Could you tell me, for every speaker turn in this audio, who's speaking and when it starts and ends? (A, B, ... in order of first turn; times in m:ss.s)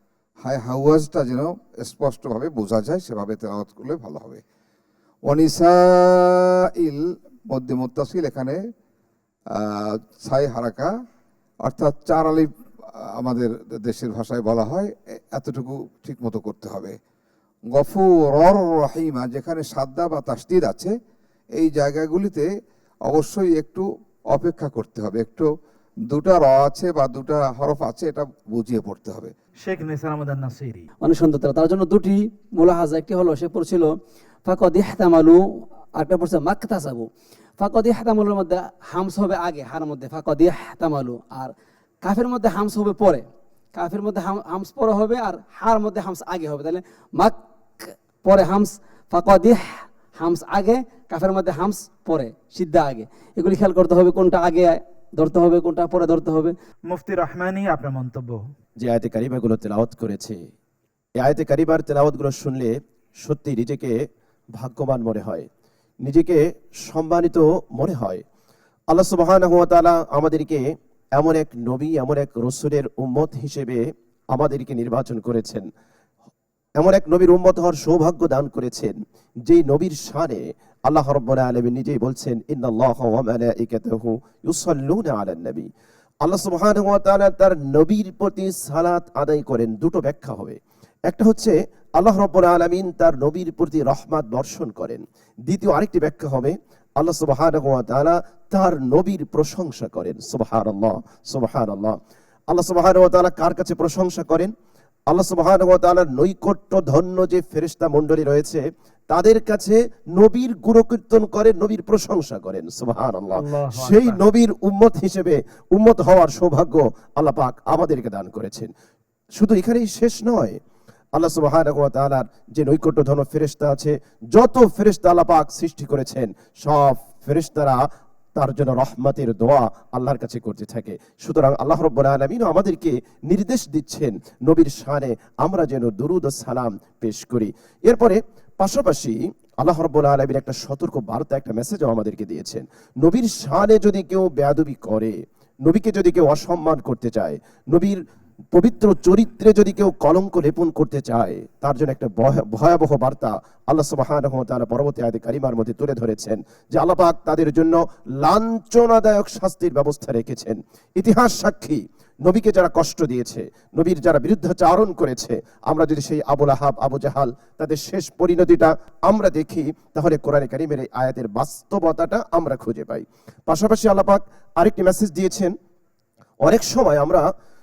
0:00.4-0:04.4 A
0:05.3-0:08.6 A
0:09.6-0:10.9 A
0:11.6-0:12.5 A
0:13.2-0:17.0 A
0:17.7-0:20.9 A
0:21.6-0:22.5 A
0:23.1-0:25.5 A
0:26.1-0:29.3 A
0:29.6-0:30.8 B
0:31.0-0:33.9 C
0:34.4-0:35.4 C
0:36.0-0:37.1 C
0:37.6-0:41.5 C
0:42.0-0:49.6 C
0:50.2-0:56.5 C
0:56.9-0:58.4 B
0:58.8-1:00.4 D
1:01.2-1:02.7 D
1:03.2-1:04.0 D
1:04.6-1:05.4 D
1:06.0-1:08.2 D
1:08.9-1:10.6 D
1:11.2-1:15.6 D
1:16.8-1:18.9 D
1:19.5-1:25.7 D
1:26.2-1:42.0 D
1:42.5-1:44.5 D
1:45.1-1:58.7 D
1:53.3-1:54.2 B
1:59.4-2:00.6 D
2:01.1-2:07.8 D
2:08.4-2:28.0 D
2:28.5-2:55.5 D
2:56.4-2:57.2 D